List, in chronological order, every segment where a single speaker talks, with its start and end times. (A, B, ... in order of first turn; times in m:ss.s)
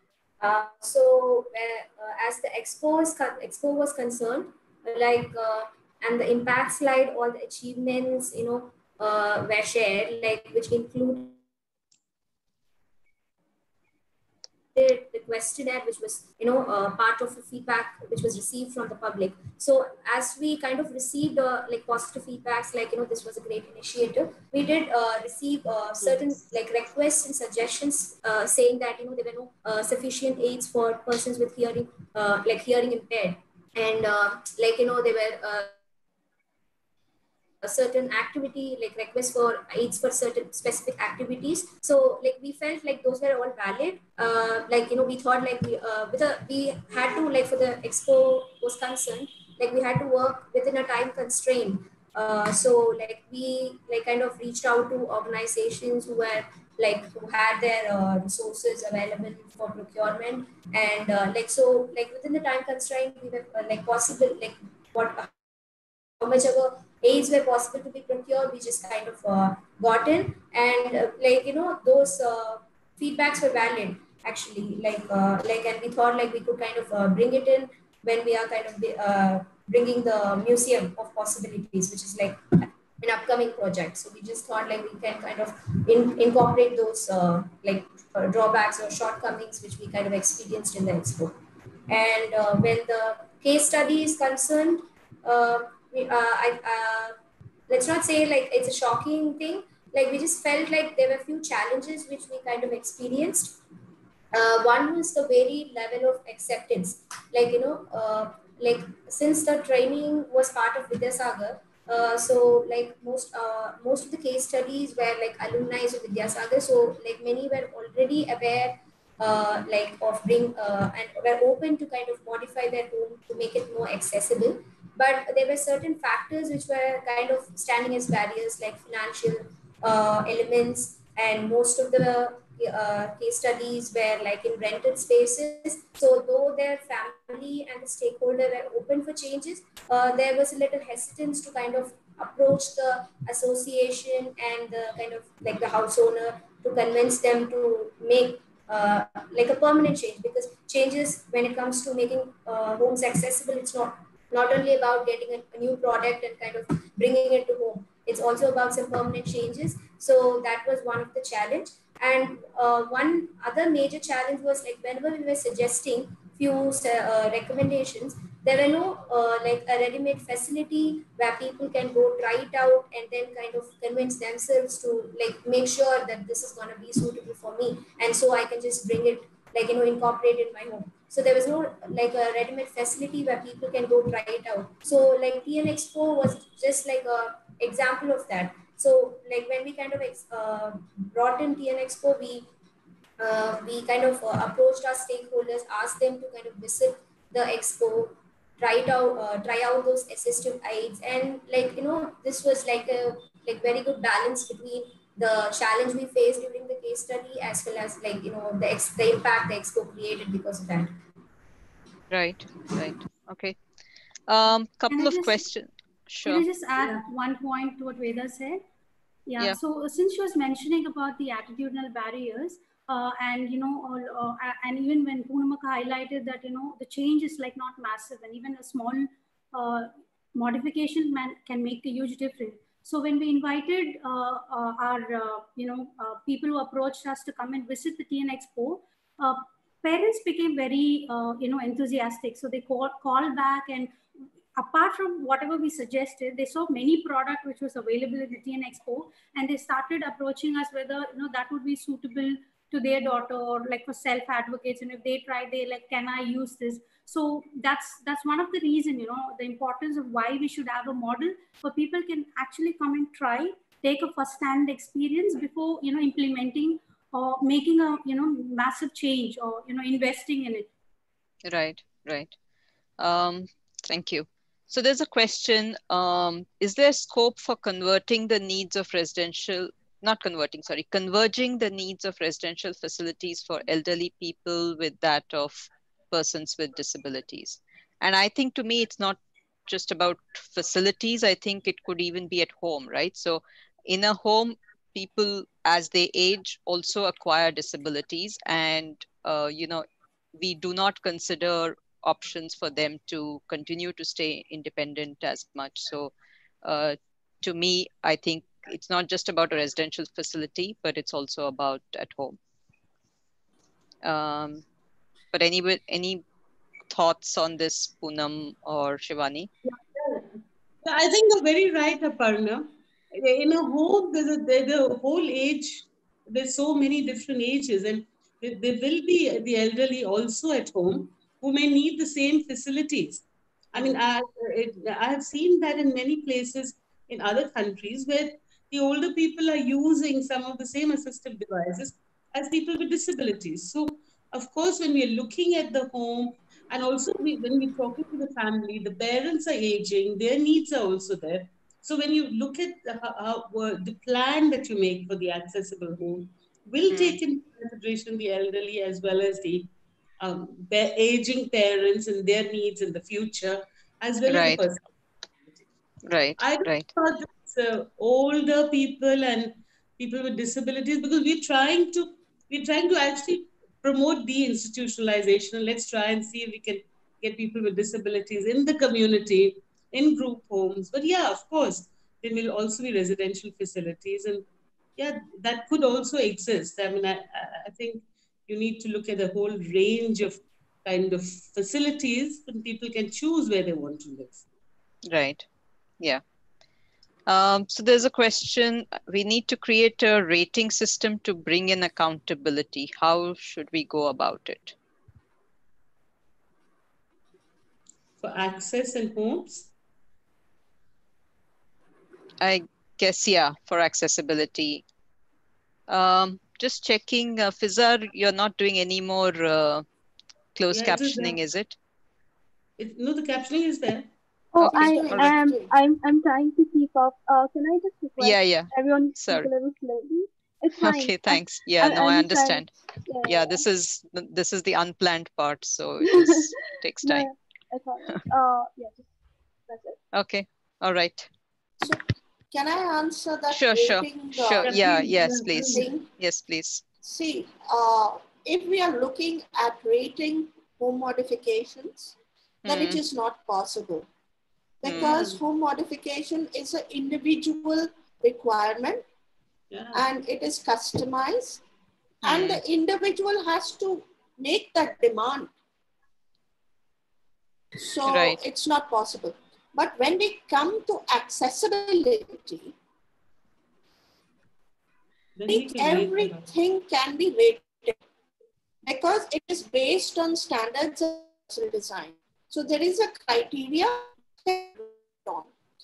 0:00.4-0:11.4 A
0:14.7-0:35.7 A
0:37.6-1:05.3 A
1:06.2-1:31.4 A
1:31.9-1:37.2 A
1:37.7-1:43.6 A
1:44.3-3:12.5 A
3:13.2-3:30.9 A
3:32.1-3:33.6 B
3:34.3-3:36.4 B
3:34.9-3:35.4 C
3:36.2-3:38.6 C
3:39.3-4:04.0 C
4:04.6-4:30.7 C
4:31.4-4:32.3 B
4:33.0-5:06.1 B
5:06.6-5:12.4 B
5:14.0-5:14.6 B
5:15.3-5:16.2 B
5:16.9-5:19.5 B
5:20.8-6:04.9 D
5:56.9-5:57.2 B
6:04.3-6:04.6 B
6:06.0-6:06.9 B
6:06.4-6:24.4 D
6:25.0-6:34.4 D
6:35.0-6:35.4 B
6:37.3-6:44.8 B
6:48.2-6:49.7 D
6:52.4-6:54.8 B
6:55.9-6:59.8 B
7:00.5-7:01.8 B
7:00.7-7:01.4 D
7:02.8-7:04.1 D
7:04.5-7:13.6 E
7:04.6-7:05.3 B
7:04.7-7:05.7 F
7:08.2-7:09.5 B
7:10.8-7:12.7 B
7:13.2-7:17.3 B
7:16.0-7:19.1 E
7:19.7-7:20.0 E
7:20.1-7:21.3 B
7:21.8-7:26.0 F
7:23.5-7:26.8 B
7:24.6-7:25.9 D
7:27.0-7:32.1 F
7:32.6-7:33.0 B
7:32.6-7:34.1 F
7:34.8-7:39.0 F
7:34.8-7:35.2 B
7:35.1-7:35.4 D
7:39.7-7:40.0 D
7:39.9-7:41.6 F
7:42.2-7:42.6 B
7:42.2-7:45.5 F
7:47.8-7:52.8 F
7:48.1-7:48.4 B
7:55.3-7:56.5 D
7:55.5-7:58.0 F
7:58.8-8:05.5 F